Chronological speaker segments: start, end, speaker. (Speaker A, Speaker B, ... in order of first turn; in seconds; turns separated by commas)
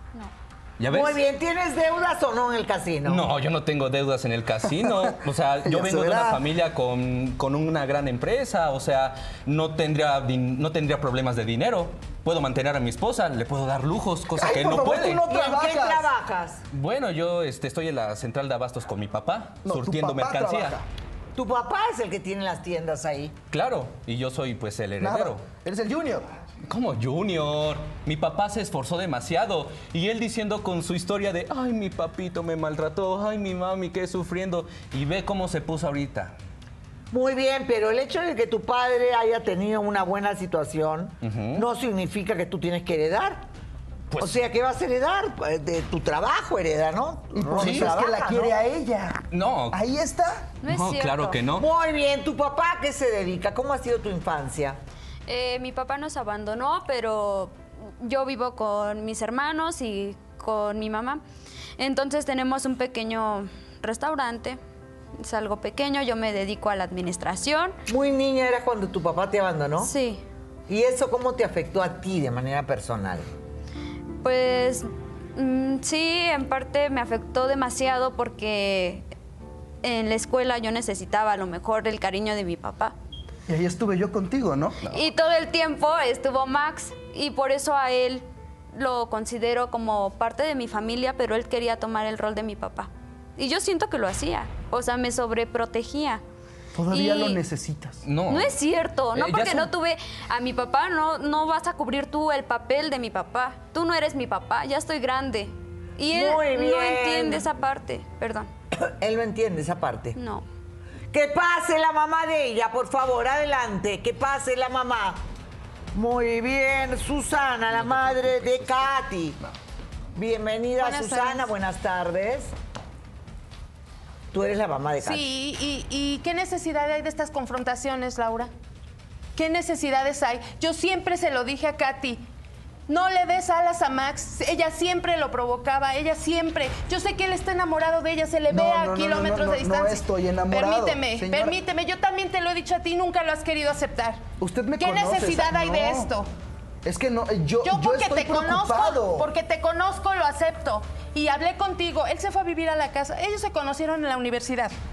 Speaker A: 0.8-1.2, Speaker B: 0.9-3.3, Speaker A: 3.0-15.2, Speaker C: 4.8-6.4, Speaker C: 14.3-16.1, Speaker B: 15.2-16.6, Speaker A: 16.7-20.8, Speaker C: 19.6-20.9, Speaker B: 21.4-23.3, Speaker A: 23.5-25.4, Speaker C: 25.0-26.3, Speaker A: 26.6-36.3, Speaker B: 37.1-43.4, Speaker A: 41.2-41.6, Speaker B: 44.2-48.5, Speaker C: 47.3-50.5, Speaker A: 47.6-47.9, Speaker A: 49.3-49.8, Speaker D: 50.6-51.4, Speaker A: 50.6-51.7, Speaker B: 51.5-54.8, Speaker D: 55.3-61.2, Speaker D: 61.8-64.6, Speaker D: 65.2-67.8, Speaker B: 67.9-69.9, Speaker D: 69.8-70.2, Speaker B: 70.7-73.3, Speaker D: 74.2-79.0, Speaker D: 79.8-82.9, Speaker C: 83.5-84.8, Speaker D: 84.9-96.2, Speaker C: 96.7-98.0, Speaker D: 96.9-97.4, Speaker A: 98.0-98.5, Speaker D: 98.3-108.5, Speaker A: 99.1-99.7, Speaker B: 106.1-107.4, Speaker B: 108.7-110.2, Speaker D: 110.1-110.4, Speaker B: 111.1-115.2, Speaker B: 115.9-119.4, Speaker A: 117.9-118.5, Speaker B: 120.2-122.5, Speaker E: 120.8-121.5, Speaker B: 124.3-125.2, Speaker E: 125.0-128.5, Speaker E: 129.3-132.2, Speaker E: 132.9-144.2, Speaker C: 138.5-141.6, Speaker C: 144.4-146.1, Speaker E: 144.8-146.3, Speaker C: 146.8-149.3, Speaker E: 147.6-154.7